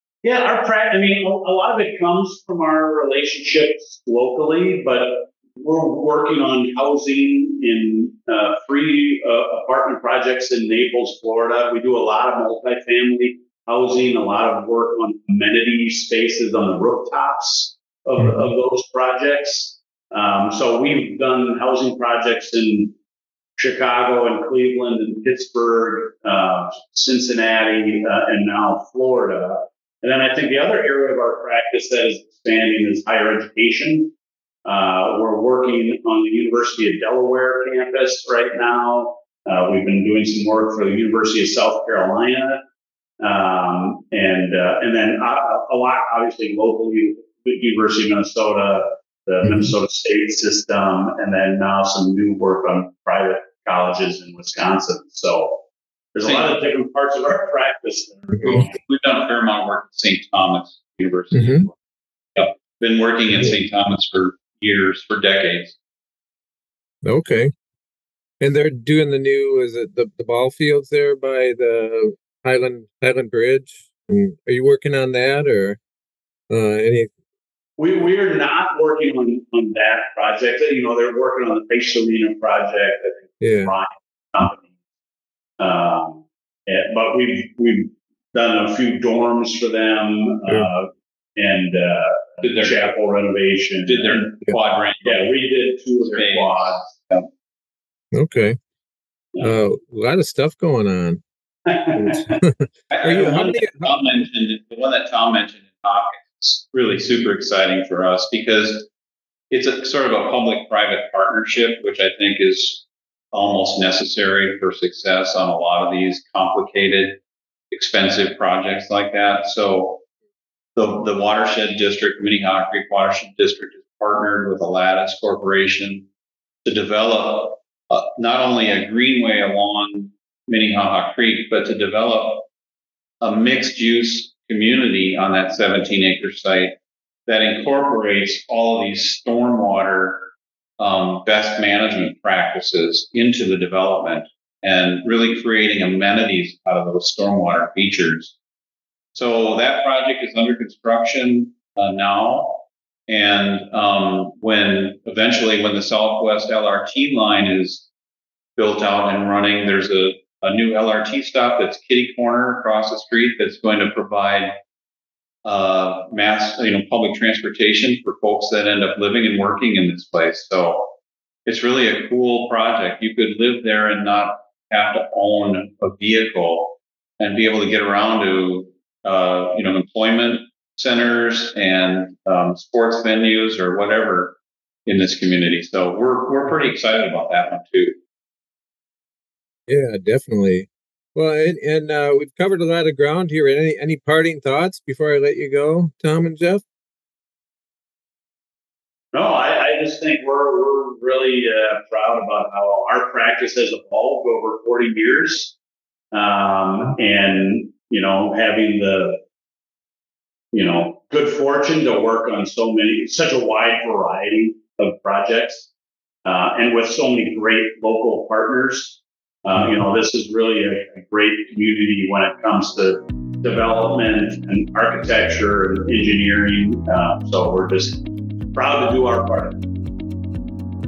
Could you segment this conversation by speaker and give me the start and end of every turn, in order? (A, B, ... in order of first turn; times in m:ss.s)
0:00.2-0:22.9 A
0:23.6-0:34.1 A
0:34.6-0:42.6 A
0:43.2-0:55.6 A
0:56.1-0:58.8 A
0:56.2-0:56.5 B
0:58.4-1:01.7 B
1:01.3-1:01.6 C
1:02.3-1:05.8 B
1:07.0-1:07.5 C
1:08.4-1:15.8 C
1:16.5-1:17.1 C
1:17.8-1:24.7 A
1:23.4-1:23.7 C
1:25.6-1:34.3 A
1:32.4-1:32.9 B
1:33.8-1:35.3 B
1:35.0-1:36.9 A
1:36.0-1:37.3 B
1:38.1-1:38.6 C
1:39.4-1:41.2 C
1:41.7-1:42.4 A
1:42.0-1:43.9 C
1:42.9-1:48.9 B
1:49.5-2:00.0 B
2:00.7-2:06.1 B
2:06.6-2:12.5 B
2:13.2-2:16.7 B
2:17.3-2:28.3 B
2:29.1-2:37.9 B
2:38.6-2:44.6 B
2:45.4-2:50.9 B
2:51.4-3:08.0 B
3:09.7-3:16.6 C
3:19.1-3:25.6 A
3:26.1-3:29.2 A
3:30.5-3:35.7 A
3:36.2-3:49.6 A